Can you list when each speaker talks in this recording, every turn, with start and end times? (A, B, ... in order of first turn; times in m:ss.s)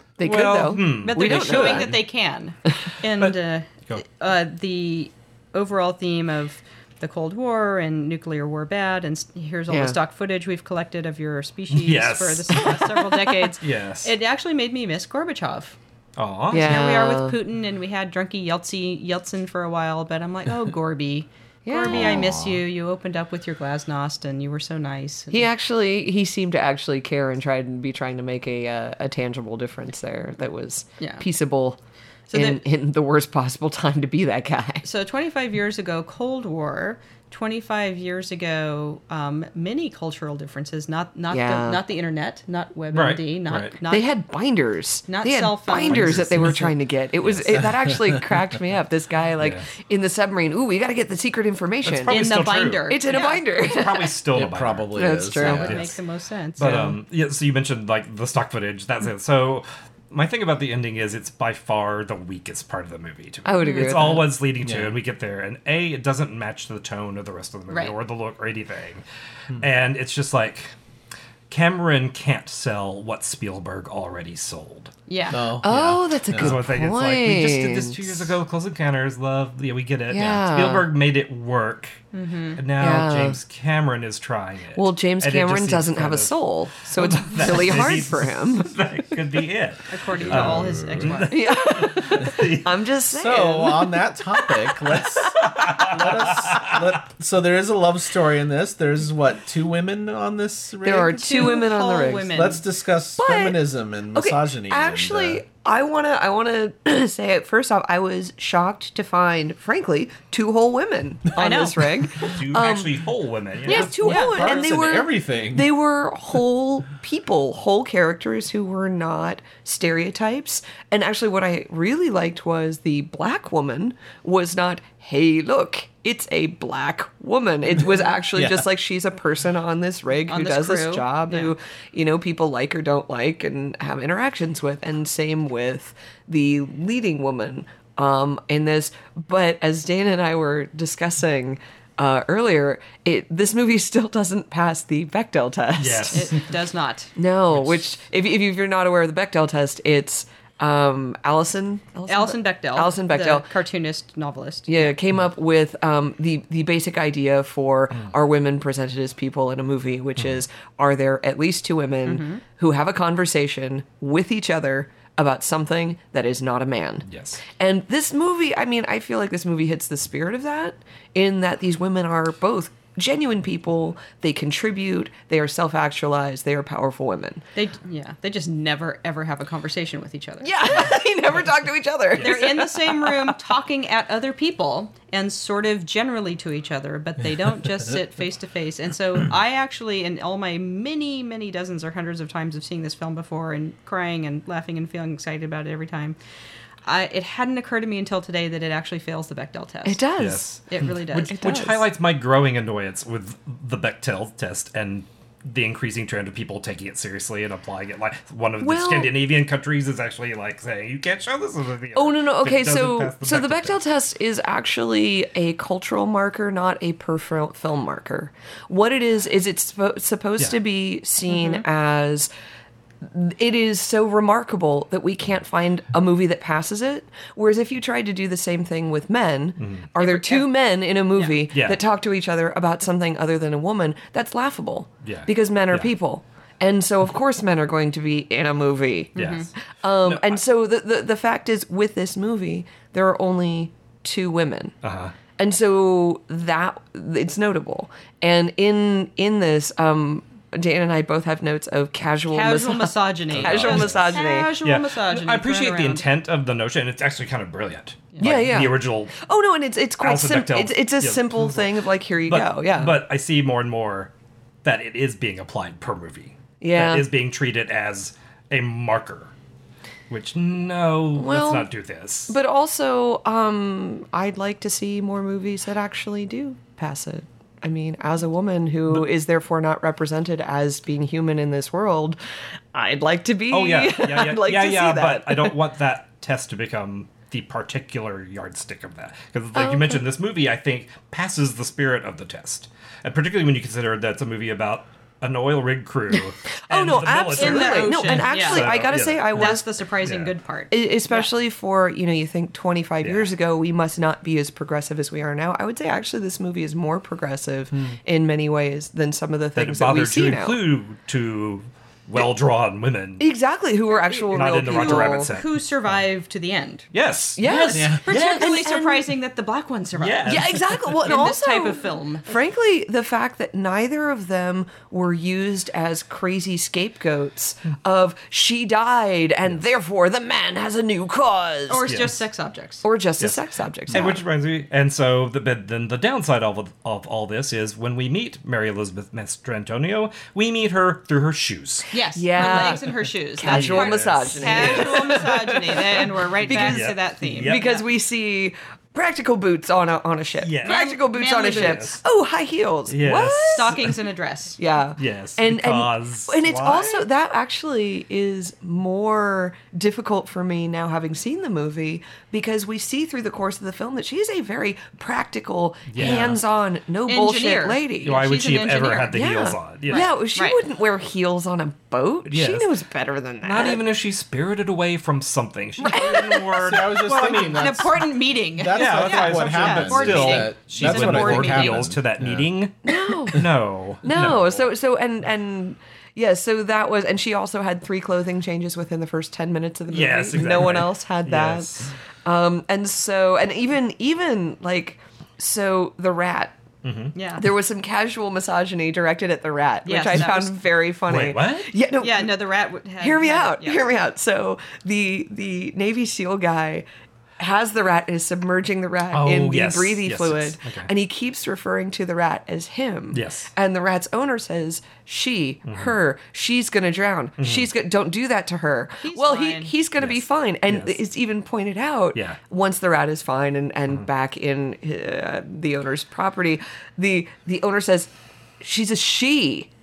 0:00.2-0:01.9 A
0:00.2-0:02.0 B
0:01.0-0:15.8 C
0:03.1-0:04.0 B
0:09.7-0:10.0 A
0:11.7-0:14.1 B
0:16.2-0:16.8 B
0:16.5-0:17.4 A
0:16.6-0:25.4 C
0:21.6-0:22.3 A
0:21.9-0:22.6 D
0:25.3-0:31.8 A
0:31.0-0:31.2 C
0:32.3-0:32.6 C
0:32.3-0:34.8 A
0:34.8-0:44.1 C
0:41.3-0:41.8 A
0:42.9-0:43.8 B
0:43.9-0:52.3 A
0:45.1-0:46.6 C
0:45.8-0:47.8 B
0:49.4-0:49.6 B
0:51.8-0:56.0 B
0:52.1-0:53.4 C
0:52.9-0:54.2 A
0:54.3-0:55.8 D
0:55.0-0:55.8 A
0:55.4-0:56.9 C
0:56.6-1:09.0 B
0:56.6-0:56.9 A
1:03.4-1:04.3 A
1:03.6-1:04.1 C
1:04.6-1:05.0 D
1:09.5-1:10.7 B
1:11.5-1:14.9 B
1:15.1-1:15.4 C
1:15.3-1:16.6 D
1:15.6-1:18.2 A
1:15.7-1:22.0 B
1:20.1-1:20.9 A
1:22.1-1:22.6 C
1:22.6-1:32.7 B
1:22.8-1:23.4 A
1:24.8-1:28.7 A
1:29.9-1:31.5 C
1:30.2-1:31.2 D
1:31.2-1:34.0 A
1:33.1-1:41.7 D
1:35.4-1:36.8 B
1:40.8-1:42.5 A
1:41.1-1:42.6 C
1:42.3-1:45.4 D
1:43.2-1:43.6 A
1:44.1-1:53.0 A
1:51.4-1:51.9 C
1:52.2-1:54.0 B
1:53.6-2:26.3 A
1:53.7-1:54.7 C
1:53.7-1:55.7 D
2:08.3-2:08.7 D
2:10.3-2:11.5 C
2:25.8-2:26.4 B
2:26.1-2:27.1 C
2:27.2-2:33.5 A
2:32.1-2:35.0 C
2:34.7-2:57.4 A
2:42.0-2:42.4 C
2:47.1-2:47.4 B
2:57.6-3:01.0 C
3:00.4-3:03.4 A
3:02.2-3:16.2 C
3:16.8-3:20.0 C
3:19.8-3:20.5 A
3:20.2-3:33.8 B
3:20.7-3:21.6 C
3:21.3-3:21.8 A
3:28.6-3:29.1 A
3:32.0-3:42.3 A
3:41.3-3:41.6 C
3:43.0-3:59.2 A
3:49.6-3:49.9 B
3:50.0-3:50.5 C
3:51.2-3:51.4 C
3:51.5-3:51.8 B
3:55.0-3:55.9 B
3:59.2-3:59.5 C
3:59.2-4:00.4 B
3:59.7-4:04.8 A
4:04.8-4:05.1 B
4:05.4-4:14.5 A
4:12.3-4:16.0 C
4:13.3-4:19.2 B
4:18.2-4:23.0 A
4:20.0-4:21.7 B
4:22.2-4:24.1 B
4:24.6-4:29.3 B
4:26.6-4:27.1 A
4:30.1-4:32.4 B
4:31.2-4:31.7 A
4:32.3-4:42.2 A
4:42.7-4:45.6 A
4:43.5-5:00.3 B
4:49.6-4:50.0 A
4:56.6-4:59.7 A
4:57.3-5:01.3 C
5:00.7-5:10.6 A
5:03.0-5:03.3 B
5:09.6-5:13.2 B
5:13.2-5:15.3 A
5:14.1-5:16.9 C
5:14.3-5:15.5 B
5:16.9-5:18.5 B
5:17.4-5:19.1 A
5:17.4-5:22.3 C
5:17.7-5:18.0 D
5:20.0-5:21.1 B
5:20.3-5:31.9 A
5:31.7-5:32.8 C
5:31.9-5:32.2 B
5:32.8-5:34.2 A
5:33.2-5:41.9 B
5:41.9-5:47.8 C
5:42.2-5:53.8 A
5:42.4-5:42.7 B
5:43.4-5:47.6 B
5:50.4-5:52.0 B
5:50.6-5:51.9 C
5:52.9-5:54.0 B
5:53.5-5:54.6 C
5:54.6-6:08.2 A
5:55.0-5:57.0 B
6:05.9-6:06.4 B
6:07.1-6:09.2 C
6:08.0-6:10.1 B
6:09.1-6:13.8 A
6:09.9-6:10.6 C
6:12.3-6:12.7 B
6:13.4-6:17.8 B
6:15.8-6:16.4 A
6:16.5-6:22.5 D
6:17.4-6:21.9 C
6:18.7-6:24.7 B
6:22.8-6:23.4 A
6:24.0-6:36.6 A
6:29.9-6:31.9 B
6:36.8-6:37.2 B
6:37.2-6:37.4 C
6:37.4-6:42.4 A
6:39.8-6:40.6 C
6:41.1-6:41.7 B
6:42.0-6:43.8 C
6:43.0-6:46.9 A
6:47.4-7:08.1 A
6:49.1-6:50.9 B
6:53.1-6:53.5 B
6:55.7-6:55.9 B
6:57.4-6:57.7 B
6:59.0-6:59.7 C
7:00.0-7:01.0 B
7:08.6-7:09.7 A